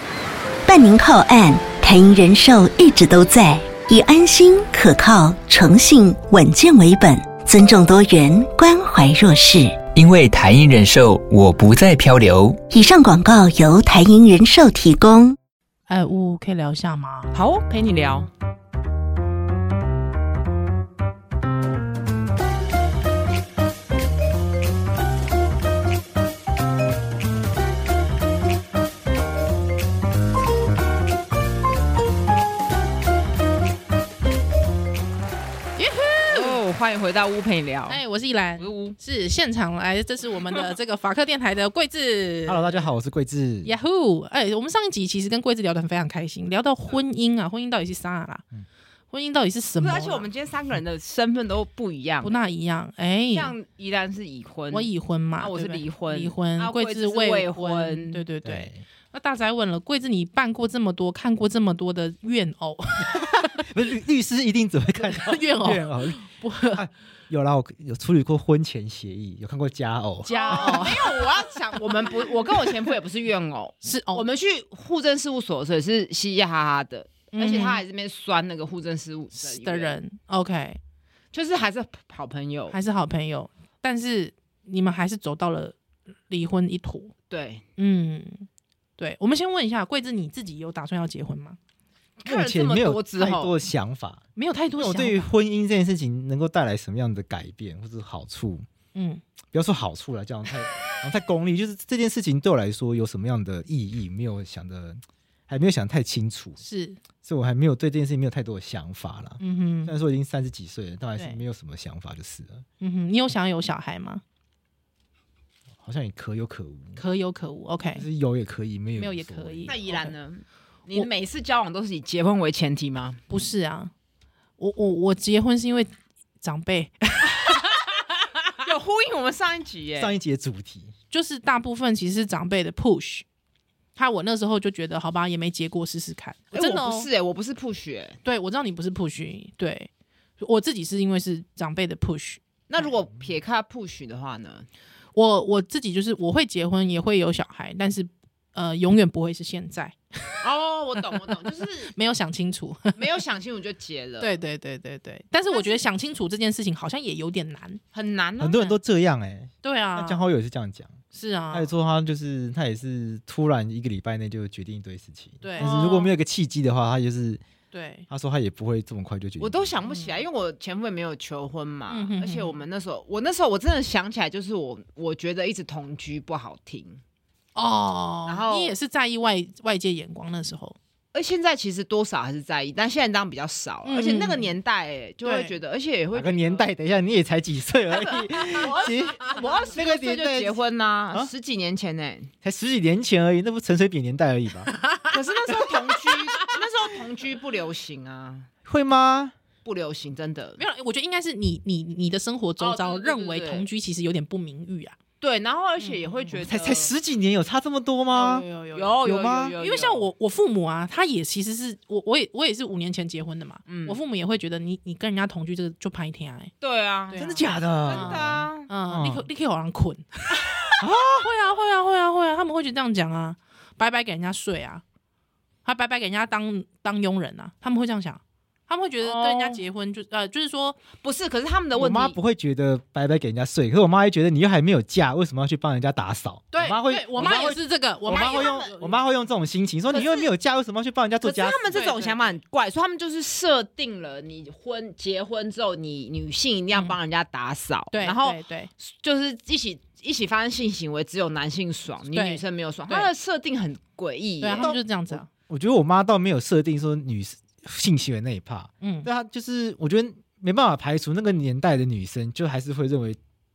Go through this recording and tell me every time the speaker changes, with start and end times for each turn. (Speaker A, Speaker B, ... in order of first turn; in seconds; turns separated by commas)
Speaker A: 0.7-9.8, Speaker B: 9.9-12.6, Speaker A: 12.7-15.4, Speaker C: 15.9-17.3, Speaker D: 17.3-18.3, Speaker C: 35.8-36.6, Speaker D: 36.3-38.0, Speaker C: 37.9-42.9, Speaker D: 38.6-39.0, Speaker E: 42.5-43.8, Speaker C: 43.6-48.4, Speaker C: 49.1-50.3, Speaker D: 49.8-52.4, Speaker C: 52.2-53.5, Speaker D: 53.3-58.2, Speaker C: 54.7-63.6, Speaker E: 58.4-58.8, Speaker E: 63.0-70.9, Speaker C: 65.0-66.8, Speaker C: 70.2-71.5, Speaker D: 70.3-80.0, Speaker C: 73.8-74.2, Speaker C: 77.3-77.8, Speaker C: 79.3-80.8, Speaker D: 81.3-82.8, Speaker C: 82.7-85.8, Speaker C: 86.3-87.1, Speaker D: 87.3-87.6, Speaker C: 87.8-88.5, Speaker C: 89.0-91.6, Speaker D: 92.2-93.5, Speaker E: 92.2-94.2, Speaker C: 94.4-95.3, Speaker E: 94.8-98.7, Speaker C: 99.0-99.2, Speaker E: 99.5-106.6, Speaker C: 106.6-107.0, Speaker E: 107.2-112.7, Speaker C: 109.4-109.9, Speaker C: 112.8-114.2, Speaker E: 115.8-117.0, Speaker C: 117.0-118.0, Speaker E: 117.9-119.7, Speaker C: 119.0-120.1, Speaker D: 119.7-123.2, Speaker C: 123.3-123.9, Speaker C: 124.6-127.7, Speaker D: 127.4-130.1, Speaker E: 130.0-130.9, Speaker C: 131.1-133.2, Speaker C: 134.0-137.1, Speaker D: 136.5-138.2, Speaker C: 138.2-142.4, Speaker D: 142.7-144.7, Speaker C: 145.2-150.4, Speaker D: 150.4-151.9, Speaker C: 151.9-153.1, Speaker D: 153.0-154.4, Speaker C: 154.2-157.8, Speaker D: 155.5-155.8, Speaker D: 157.9-158.6, Speaker E: 158.4-161.0, Speaker C: 159.6-160.2, Speaker C: 161.1-161.7, Speaker E: 161.5-167.4, Speaker C: 165.4-166.1, Speaker D: 165.6-166.1, Speaker C: 167.7-168.1, Speaker E: 168.1-169.8, Speaker D: 169.4-177.0, Speaker C: 169.8-170.2, Speaker C: 171.9-172.5, Speaker C: 177.6-180.8, Speaker D: 178.3-178.8, Speaker D: 181.1-186.7, Speaker C: 183.8-184.5, Speaker C: 185.2-185.6, Speaker E: 186.1-190.6, Speaker D: 187.9-192.3, Speaker C: 188.8-189.4, Speaker E: 192.4-194.7, Speaker C: 194.7-196.6, Speaker D: 195.1-198.5, Speaker E: 198.7-199.3, Speaker D: 199.7-200.6, Speaker C: 200.6-205.0, Speaker D: 202.6-203.7, Speaker D: 205.2-206.9, Speaker C: 205.8-206.4, Speaker E: 206.4-208.5, Speaker C: 208.1-209.0, Speaker D: 208.7-210.1, Speaker E: 209.0-209.6, Speaker C: 209.6-216.5, Speaker D: 213.7-214.0, Speaker D: 216.6-217.3, Speaker C: 217.1-224.8, Speaker E: 217.2-219.3, Speaker D: 217.8-218.7, Speaker E: 220.8-221.3, Speaker C: 225.7-230.8, Speaker D: 229.0-229.6, Speaker D: 231.0-232.2, Speaker E: 231.8-241.6, Speaker C: 236.5-238.9, Speaker D: 237.2-238.7, Speaker D: 239.9-240.3, Speaker D: 241.2-254.8, Speaker C: 241.7-242.3, Speaker C: 247.9-248.7, Speaker C: 252.1-253.1, Speaker C: 254.4-255.3, Speaker E: 254.6-263.2, Speaker C: 258.8-259.1